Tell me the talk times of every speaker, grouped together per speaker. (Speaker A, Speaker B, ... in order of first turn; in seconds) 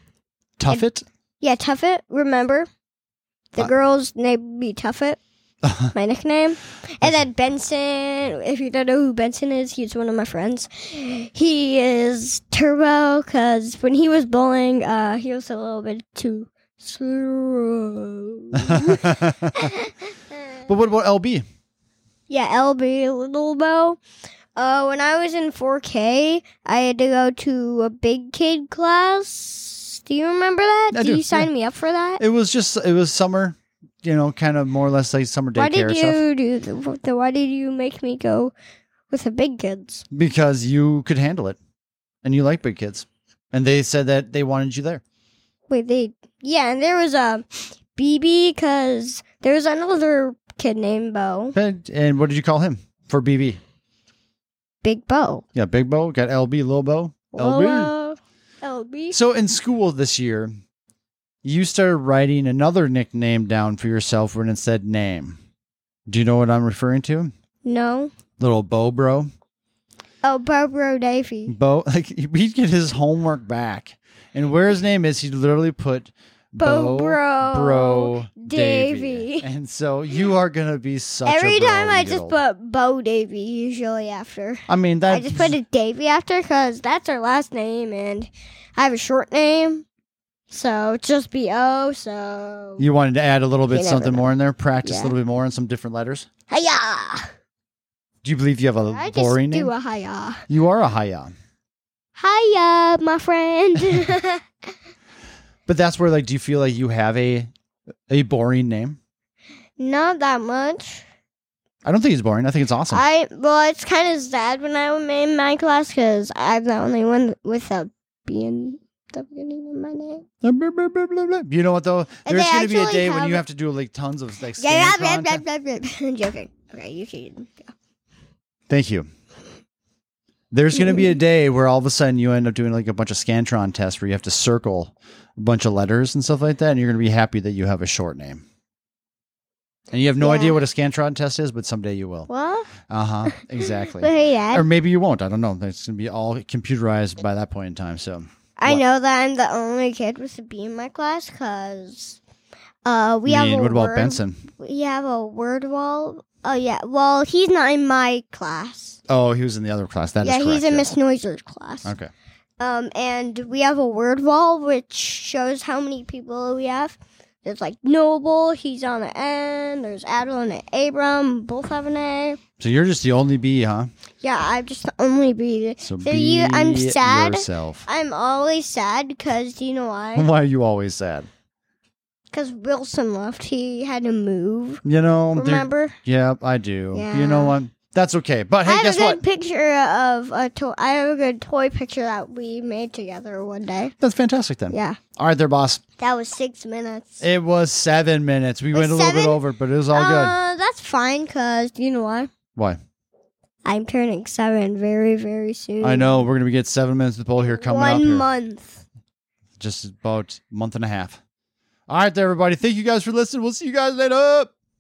Speaker A: 0.6-1.0, 5.6-5.9, 18.6-19.7, 20.7-21.4, 30.9-31.5, 32.2-36.2, 40.1-41.6, 42.2-45.0, 51.5-53.6, 55.5-57.9, 59.1-60.5, 61.4-65.4, 66.1-67.3, 68.4-69.3, 71.5-82.3, 84.7-85.6, 92.8-96.3, 98.2-99.7, 100.5-101.3, 105.7-107.5, 108.1-109.0, 111.8-113.0, 120.4-125.4, 128.7-129.1, 130.5-138.4, 139.9-142.3, 142.9-148.8, 153.2-154.4, 159.1-160.9, 161.8-162.1, 172.6-173.9, 175.8-177.9, 180.1-181.3, 184.8-189.2, 194.0-195.8, 197.2-200.3, 205.8-208.2, 209.6-211.2, 211.9-214.5
Speaker B: 1.4-2.7, 3.5-5.2, 5.9-20.1, 22.3-24.0, 24.6-32.2, 35.5-38.5, 39.1-40.0, 45.7-51.5, 54.8-55.4, 57.3-59.2, 67.6-68.1, 70.2-71.5, 76.6-79.5, 81.2-89.8, 90.5-92.8, 93.7-95.1, 96.5-97.3, 98.9-100.4, 102.2-104.4, 109.8-111.0, 112.9-120.2, 122.2-123.4, 124.6-127.7, 130.8-131.1, 140.2-140.6, 142.3-142.7, 143.6-144.7, 148.6-152.2, 152.8-159.0, 160.2-161.9, 162.6-172.4, 174.2-180.3, 182.3-184.8, 185.3-185.9, 186.9-187.6, 188.6-193.9, 194.7-195.0, 196.0-197.2, 198.7-202.3, 203.6-206.2, 207.4-208.8